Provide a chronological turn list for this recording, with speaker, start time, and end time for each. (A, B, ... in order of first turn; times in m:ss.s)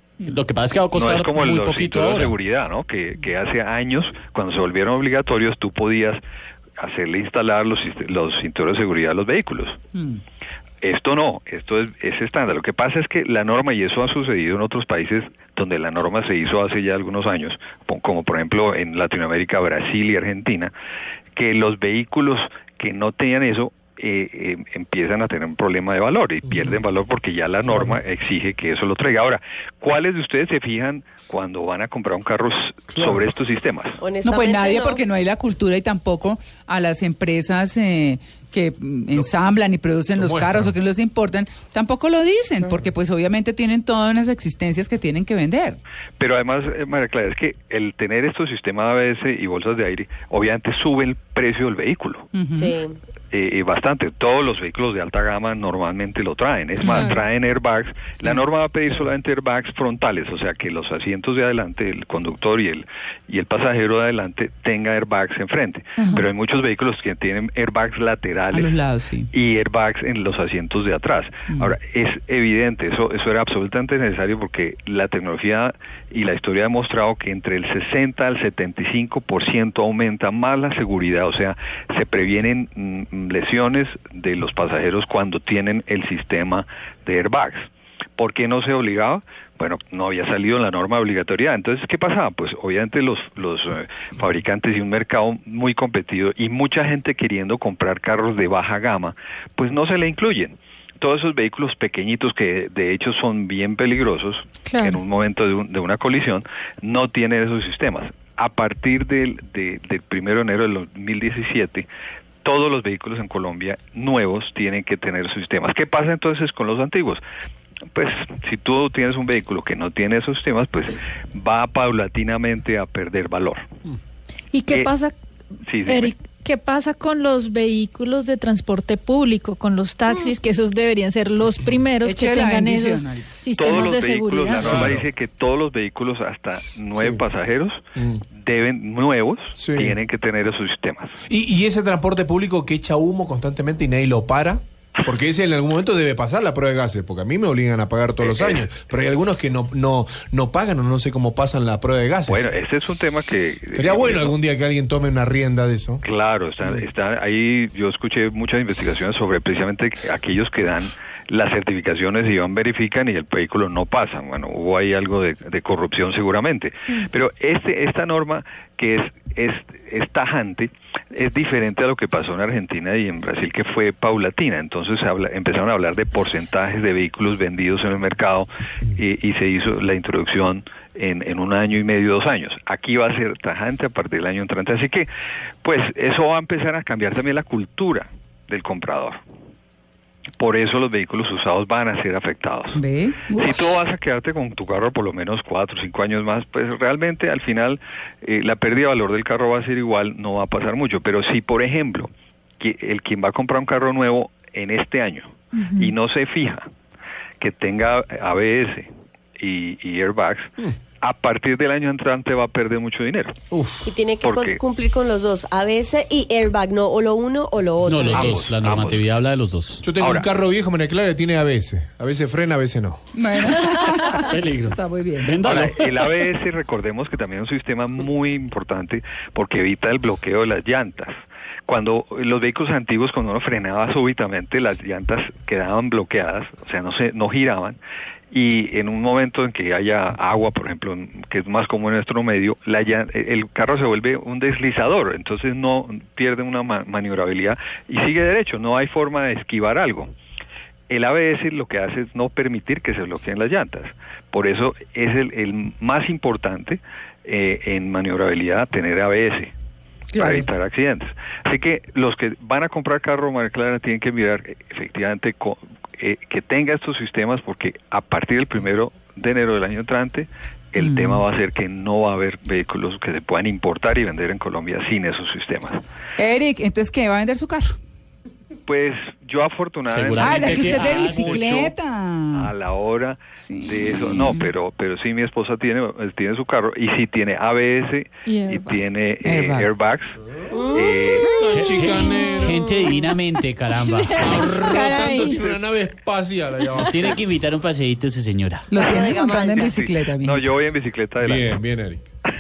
0:00.2-0:02.4 A
0:00.9-0:06.2 B
0:06.8-0:09.8 B
0:10.0-0:10.2 C
0:10.8-0:20.7 B
0:21.4-0:34.0 B
0:26.5-0:26.8 D
0:27.7-0:28.0 D
0:32.9-0:33.2 D
0:34.0-0:35.0 E
0:34.2-0:45.8 C
0:40.2-0:40.8 D
0:46.2-0:52.3 B
0:52.3-0:52.8 C
0:52.5-0:53.0 E
0:53.3-1:08.8 B
0:56.8-0:57.2 C
1:06.0-1:06.3 C
1:08.5-1:09.3 C
1:09.3-1:51.9 B
1:44.7-1:45.0 F
1:52.4-1:57.2 B
1:57.9-2:03.7 B
2:04.5-2:05.1 F
2:04.7-2:04.9 B
2:05.7-2:06.2 B
2:05.8-2:14.8 F
2:12.0-2:13.8 C
2:13.6-2:17.8 B
2:14.5-2:15.1 D
2:17.0-2:17.2 D
2:18.0-2:18.2 D
2:18.3-2:21.2 B
2:19.6-2:20.0 D
2:21.3-2:32.5 D
2:28.2-2:28.6 B
2:32.3-2:34.4 B
2:33.8-2:36.0 D
2:36.0-3:05.1 B
3:05.6-3:09.2 B
3:10.4-3:26.6 B
3:12.7-3:13.7 C
3:25.6-3:25.9 F
3:27.4-3:28.9 B
3:29.4-3:33.4 B
3:33.5-3:33.9 D
3:33.8-3:38.4 E
3:34.2-3:34.6 B
3:37.8-3:39.8 A
3:38.0-3:39.1 B
3:39.8-3:43.1 D
3:40.0-3:40.3 B
3:43.2-3:45.4 C
3:44.1-3:46.0 A
3:45.4-3:57.8 B
3:58.3-4:10.1 B
4:10.9-4:19.5 B
4:20.1-4:20.5 C
4:20.2-4:35.8 B
4:30.8-4:31.2 C
4:36.2-4:37.8 C
4:38.7-4:41.8 B
4:39.9-4:41.5 A
4:40.2-4:42.5 C
4:42.3-4:50.2 B
4:43.4-4:44.5 C
4:48.3-4:48.8 F
4:49.2-4:49.7 C
4:50.7-4:51.3 B
4:51.2-4:53.0 D
4:51.5-4:54.5 A
4:53.9-4:55.6 F
4:54.2-4:57.1 D
4:56.8-4:58.8 A
4:58.7-5:00.6 C
4:58.8-4:59.7 E
4:59.6-5:01.6 B
5:01.2-5:02.1 D